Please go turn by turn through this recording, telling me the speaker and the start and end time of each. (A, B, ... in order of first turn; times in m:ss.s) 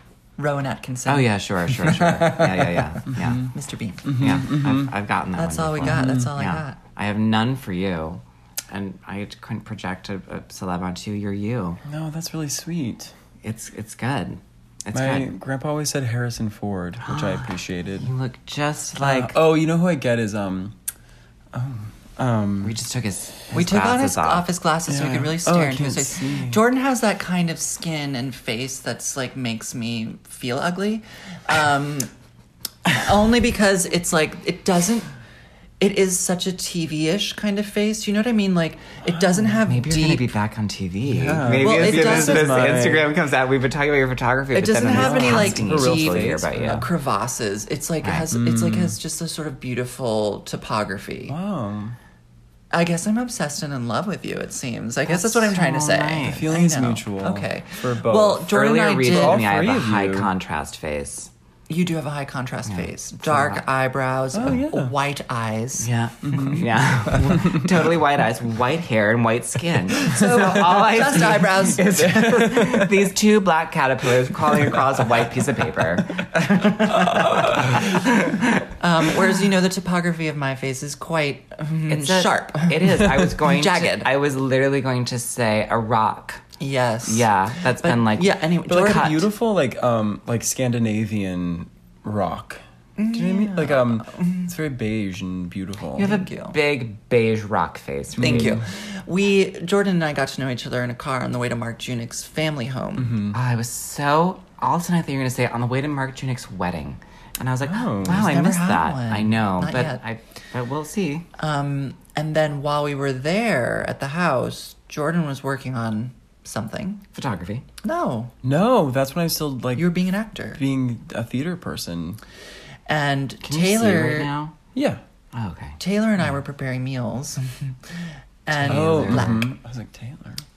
0:00.4-0:02.8 A
0:01.1-0:03.5 B
0:02.2-0:02.6 C
0:03.1-0:03.5 C
0:03.4-0:04.4 A
0:04.0-0:04.9 C
0:04.2-0:11.8 B
0:05.4-0:06.8 A
0:05.8-0:06.3 C
0:11.8-0:13.1 C
0:13.4-0:15.3 B
0:14.9-0:18.1 C
0:17.0-0:19.4 B
0:19.0-0:20.8 C
0:21.5-0:22.8 C
0:22.6-0:24.5 B
0:23.5-0:32.1 A
0:24.9-0:26.6 C
0:32.9-0:35.1 A
0:35.8-0:40.3 A
0:39.6-0:46.9 B
0:41.1-0:43.1 C
0:41.6-0:42.8 A
0:44.5-0:51.4 A
0:44.9-0:46.9 C
0:48.3-0:49.0 C
0:51.3-0:52.0 C
0:52.7-0:59.4 A
0:55.1-0:56.5 B
0:56.2-1:00.3 C
0:58.5-1:01.3 B
1:01.7-1:05.9 A
1:02.7-1:03.6 B
1:04.3-1:04.9 C
1:05.8-1:18.7 B
1:06.2-1:07.7 C
1:09.9-1:12.4 A
1:11.8-1:13.1 C
1:14.3-1:15.2 C
1:16.4-1:18.0 C
1:18.8-1:24.1 A
1:21.9-1:26.4 B
1:26.6-1:29.3 A
1:27.0-1:29.2 B
1:28.7-1:36.1 C
1:33.0-1:34.5 A
1:36.0-1:36.6 A
1:36.0-1:38.6 B
1:38.2-1:38.6 C
1:38.2-1:43.2 A
1:43.0-1:43.4 C
1:43.3-1:51.3 B
1:47.6-1:48.3 C
1:48.0-1:50.0 A
1:51.4-1:57.0 A
1:57.1-1:57.6 B
1:57.8-1:58.3 A
1:58.4-1:59.9 C
1:59.8-2:00.6 A
2:00.5-2:02.2 C
2:02.9-2:04.3 A
2:03.4-2:04.6 B
2:04.7-2:05.0 C
2:05.3-2:05.8 B
2:05.8-2:09.6 A
2:08.6-2:09.4 B
2:08.6-2:10.4 C